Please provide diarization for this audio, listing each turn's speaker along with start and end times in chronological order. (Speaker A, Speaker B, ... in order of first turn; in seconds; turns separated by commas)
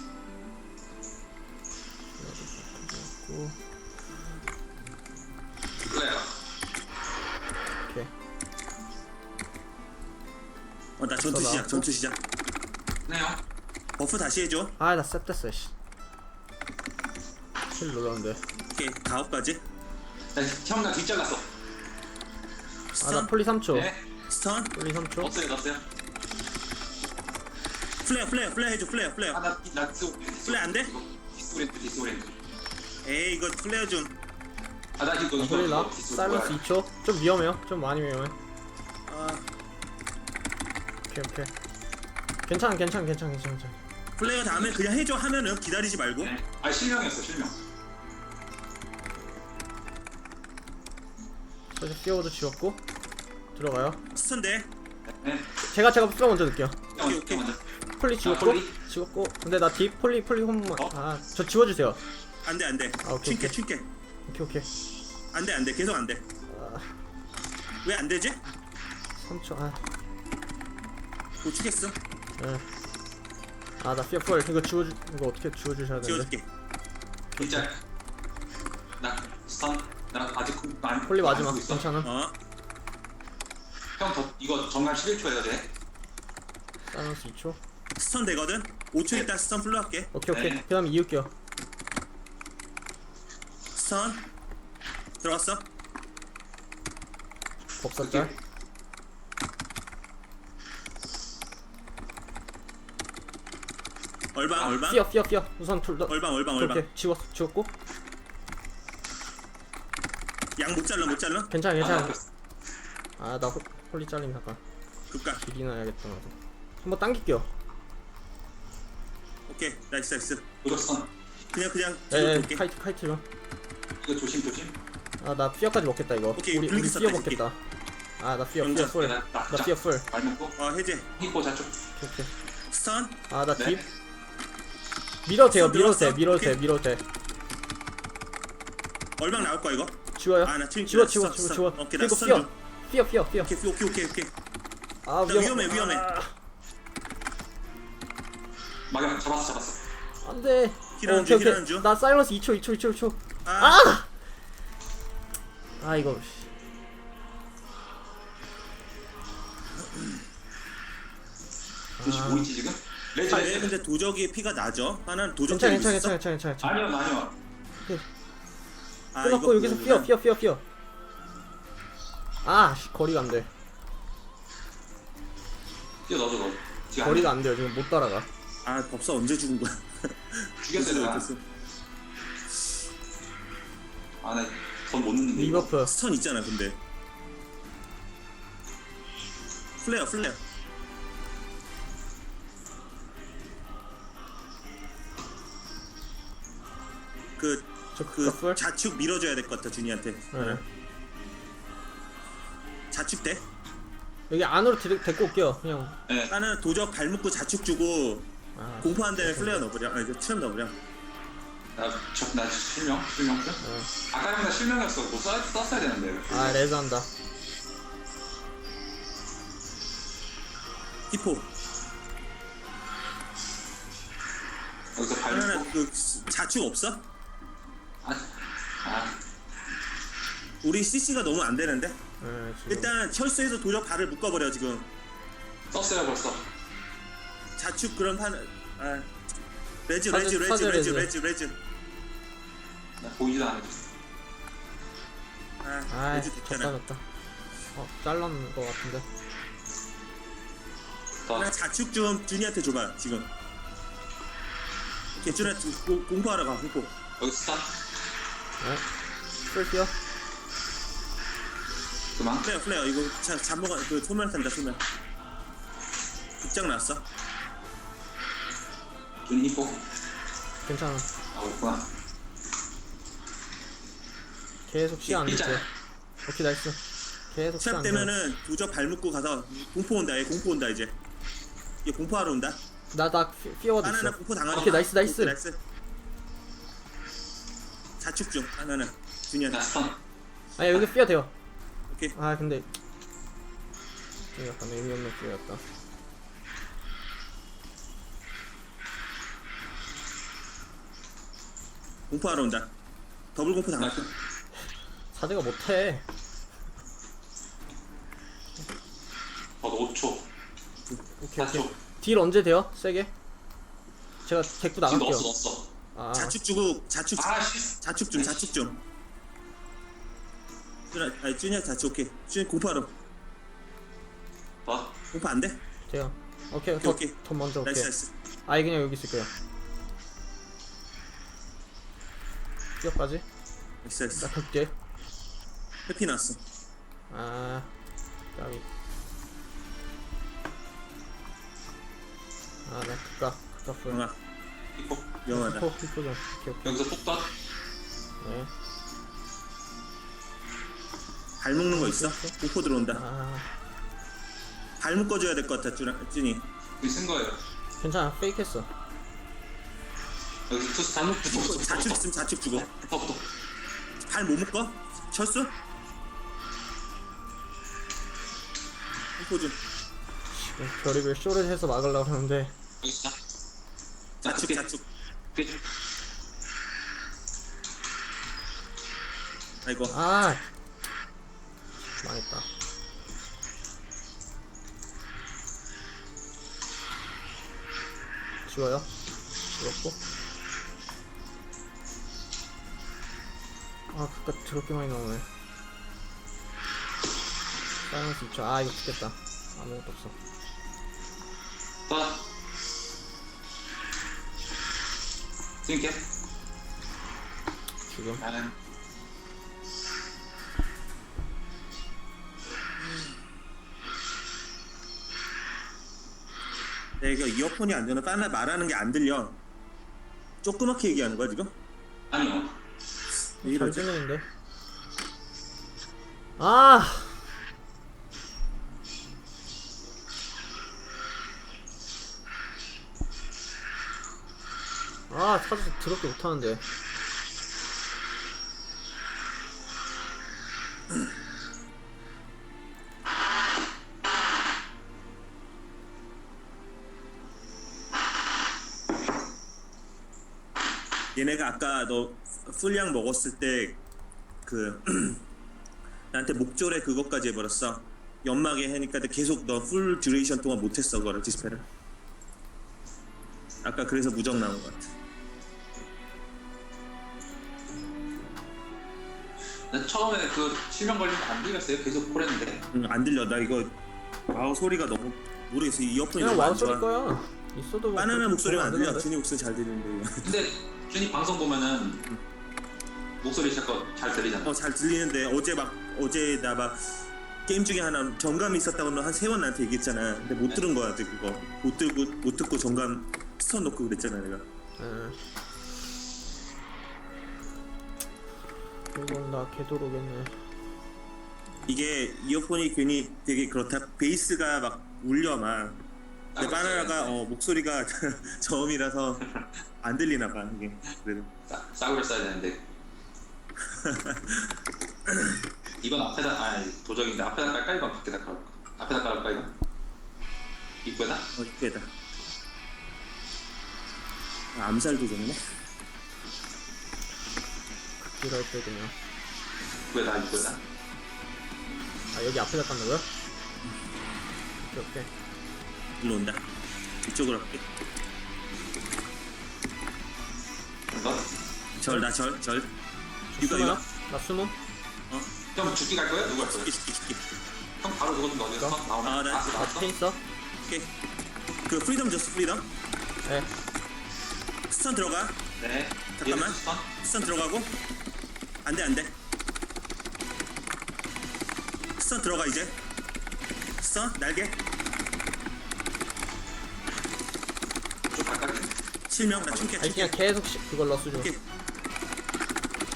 Speaker A: 2.2-3.6, Speaker B: 5.8-6.3, Speaker A: 7.8-8.1, Speaker C: 11.0-12.2, Speaker A: 11.2-11.9, Speaker B: 13.1-13.4, Speaker C: 14.0-14.8, Speaker A: 14.8-15.7, Speaker A: 17.8-18.4, Speaker C: 18.7-19.6, Speaker B: 20.4-21.5, Speaker C: 22.9-23.3, Speaker A: 23.0-23.9, Speaker B: 23.7-24.0, Speaker C: 24.3-24.8, Speaker A: 24.7-25.4, Speaker B: 25.2-25.8, Speaker C: 28.0-29.4, Speaker B: 29.3-32.4, Speaker C: 30.4-30.9, Speaker C: 33.0-34.1, Speaker B: 35.0-36.6, Speaker A: 35.4-38.4, Speaker C: 39.1-39.5, Speaker A: 41.1-41.5, Speaker A: 42.5-43.8, Speaker C: 44.2-46.3, Speaker B: 44.2-44.8, Speaker B: 46.2-47.6, Speaker A: 51.7-52.8, Speaker A: 53.5-54.0, Speaker C: 54.1-54.7, Speaker B: 55.1-55.5, Speaker A: 55.6-56.9, Speaker C: 56.9-57.5, Speaker B: 56.9-57.6, Speaker A: 58.0-62.0, Speaker B: 58.2-58.8, Speaker C: 62.4-63.9, Speaker A: 63.0-63.6, Speaker A: 64.3-64.7, Speaker C: 65.3-66.2, Speaker A: 66.5-67.0, Speaker C: 67.8-68.4, Speaker A: 69.2-69.9, Speaker C: 71.4-72.0, Speaker A: 72.4-72.6, Speaker A: 73.8-76.3, Speaker C: 76.0-76.5, Speaker B: 77.4-77.8, Speaker A: 77.4-77.7, Speaker B: 79.0-81.9, Speaker A: 81.1-82.1, Speaker C: 82.0-82.4, Speaker B: 84.0-85.7, Speaker A: 86.9-87.6, Speaker C: 88.0-90.1, Speaker A: 90.1-91.3, Speaker B: 90.3-90.6, Speaker C: 93.8-94.3, Speaker C: 95.2-95.7, Speaker A: 97.8-98.3, Speaker B: 98.0-98.3, Speaker C: 104.3-105.0, Speaker A: 104.8-107.7, Speaker C: 106.1-106.9, Speaker C: 110.6-111.5, Speaker A: 111.5-112.2, Speaker B: 111.8-112.2, Speaker A: 113.2-114.6, Speaker C: 115.1-115.4, Speaker A: 115.4-117.5, Speaker C: 119.5-120.5, Speaker B: 120.6-121.1, Speaker C: 121.5-122.6, Speaker A: 122.1-123.2, Speaker B: 124.0-124.8, Speaker A: 125.2-127.6, Speaker C: 126.4-127.4, Speaker A: 128.2-130.1, Speaker C: 128.6-129.0, Speaker B: 128.9-130.6, Speaker C: 130.6-131.1, Speaker B: 131.2-131.8, Speaker A: 132.0-132.3, Speaker C: 132.7-133.2, Speaker A: 133.3-133.8, Speaker B: 133.6-133.8, Speaker A: 135.3-137.0, Speaker C: 135.5-136.6, Speaker C: 139.2-142.5, Speaker A: 140.2-143.5, Speaker C: 143.4-144.3, Speaker A: 145.1-146.3, Speaker C: 145.3-146.1, Speaker B: 148.9-149.8, Speaker A: 150.2-154.1, Speaker C: 151.0-151.9, Speaker C: 153.4-153.8, Speaker A: 155.8-156.5, Speaker A: 162.0-162.5, Speaker B: 162.0-163.8, Speaker C: 163.3-166.2, Speaker A: 165.5-166.8, Speaker B: 166.6-167.3, Speaker C: 169.1-170.1, Speaker A: 169.2-170.6, Speaker A: 172.4-173.5, Speaker B: 176.1-177.3, Speaker A: 177.0-178.3, Speaker C: 178.7-181.4, Speaker B: 180.6-181.3, Speaker B: 184.2-185.7, Speaker A: 185.3-185.9, Speaker C: 185.8-186.8, Speaker C: 189.8-190.4, Speaker C: 197.4-200.6, Speaker A: 197.9-198.6, Speaker A: 200.3-200.6, Speaker C: 202.9-203.4, Speaker A: 204.3-206.0, Speaker B: 206.1-206.3, Speaker C: 206.3-208.3, Speaker A: 208.6-209.7, Speaker C: 208.8-210.8, Speaker B: 211.8-216.6, Speaker A: 213.6-213.9, Speaker A: 216.3-217.1, Speaker C: 221.1-221.5, Speaker B: 225.0-225.7, Speaker C: 225.3-227.1, Speaker B: 228.0-229.2, Speaker C: 230.6-232.0, Speaker A: 232.2-232.9, Speaker C: 232.7-234.9, Speaker B: 235.7-236.5, Speaker C: 237.6-239.1, Speaker C: 239.9-241.6, Speaker A: 240.1-241.1, Speaker B: 243.0-243.9, Speaker C: 245.6-246.7, Speaker A: 245.9-247.0, Speaker A: 247.8-249.1, Speaker C: 251.3-253.3, Speaker C: 255.2-256.9, Speaker B: 257.2-257.7, Speaker A: 258.6-258.8, Speaker A: 259.5-259.9, Speaker B: 262.2-262.5, Speaker C: 262.4-264.8, Speaker C: 266.4-267.1, Speaker B: 269.2-269.8, Speaker A: 270.6-271.1, Speaker B: 271.3-271.9, Speaker A: 274.7-275.7, Speaker B: 275.0-275.6, Speaker A: 276.2-278.1, Speaker C: 277.6-281.0, Speaker C: 281.8-282.6, Speaker A: 282.9-285.4, Speaker C: 283.8-285.6, Speaker B: 284.5-284.9, Speaker C: 288.0-289.6, Speaker B: 289.5-290.0, Speaker A: 290.6-291.3, Speaker C: 291.9-292.1, Speaker A: 292.1-292.7, Speaker A: 294.4-295.6, Speaker C: 302.1-302.7, Speaker C: 303.4-304.1, Speaker B: 303.8-304.1, Speaker A: 305.1-306.0, Speaker B: 309.6-310.3, Speaker A: 311.2-313.1, Speaker B: 311.4-311.7, Speaker A: 314.3-315.3, Speaker B: 314.9-315.7, Speaker A: 315.9-316.4, Speaker C: 316.1-318.8, Speaker B: 317.2-318.5, Speaker C: 320.9-322.9, Speaker B: 324.6-325.0, Speaker C: 325.1-325.6, Speaker A: 325.9-327.9, Speaker C: 326.8-328.1, Speaker A: 328.5-329.3, Speaker A: 332.8-333.2, Speaker C: 333.8-334.3, Speaker A: 334.1-334.7, Speaker C: 335.9-336.4, Speaker A: 337.1-337.7, Speaker A: 338.4-338.6, Speaker A: 342.7-344.0, Speaker C: 343.9-344.2, Speaker B: 344.8-345.1, Speaker C: 345.2-345.7, Speaker A: 345.3-346.8, Speaker B: 346.6-347.3, Speaker A: 348.2-348.5, Speaker C: 351.4-353.0, Speaker A: 351.7-352.4, Speaker A: 352.9-353.5, Speaker C: 354.8-356.4, Speaker B: 356.8-357.4, Speaker A: 357.8-358.7, Speaker B: 360.5-363.3, Speaker C: 361.0-362.7, Speaker C: 364.0-365.5, Speaker C: 369.2-369.6, Speaker A: 370.3-372.5, Speaker B: 372.8-373.2, Speaker C: 374.2-374.9, Speaker B: 374.2-374.7, Speaker B: 375.4-375.6, Speaker C: 379.6-379.9, Speaker A: 379.9-380.4, Speaker A: 382.0-382.5, Speaker A: 388.5-388.9, Speaker A: 389.6-390.0, Speaker A: 393.9-395.3, Speaker A: 397.9-400.1, Speaker B: 401.9-402.2, Speaker B: 405.6-406.0, Speaker A: 407.9-408.2, Speaker B: 408.2-408.5, Speaker C: 417.0-419.4, Speaker C: 420.4-421.5, Speaker B: 422.1-422.6, Speaker C: 423.3-423.9, Speaker A: 423.4-424.3, Speaker A: 426.4-427.2, Speaker A: 435.1-436.6, Speaker C: 451.1-453.8, Speaker C: 454.4-455.2, Speaker C: 456.1-461.6, Speaker C: 463.6-464.9, Speaker B: 469.7-472.7, Speaker C: 472.7-473.8, Speaker C: 474.3-476.9, Speaker A: 476.1-479.1, Speaker C: 477.9-480.4, Speaker B: 480.2-482.1, Speaker B: 483.2-484.5, Speaker C: 484.4-494.4, Speaker A: 494.8-495.2, Speaker A: 498.9-500.4, Speaker C: 501.7-505.8, Speaker B: 506.3-507.2, Speaker C: 506.4-509.2, Speaker B: 509.2-509.5, Speaker C: 509.8-511.3, Speaker B: 511.5-512.6, Speaker C: 513.6-515.4, Speaker B: 515.8-519.5, Speaker B: 520.8-521.3, Speaker C: 521.4-521.9, Speaker C: 524.5-525.4, Speaker A: 528.0-528.9, Speaker B: 529.9-530.6, Speaker A: 532.1-533.1, Speaker A: 534.6-535.1, Speaker C: 536.0-536.4, Speaker C: 537.0-537.6, Speaker B: 540.9-541.3, Speaker C: 541.8-542.7, Speaker A: 543.3-544.5, Speaker C: 543.4-543.8, Speaker C: 545.1-545.4, Speaker B: 545.5-546.7, Speaker C: 546.2-547.2, Speaker B: 547.8-549.9, Speaker C: 549.0-549.6, Speaker A: 549.5-550.2, Speaker C: 551.7-552.7, Speaker C: 554.7-555.4, Speaker B: 555.6-556.9, Speaker C: 556.2-557.8, Speaker C: 558.6-559.2, Speaker C: 562.0-562.8, Speaker C: 563.8-564.6, Speaker B: 568.1-568.7, Speaker C: 569.1-570.1, Speaker B: 569.4-569.8, Speaker A: 569.8-571.3, Speaker C: 571.1-571.4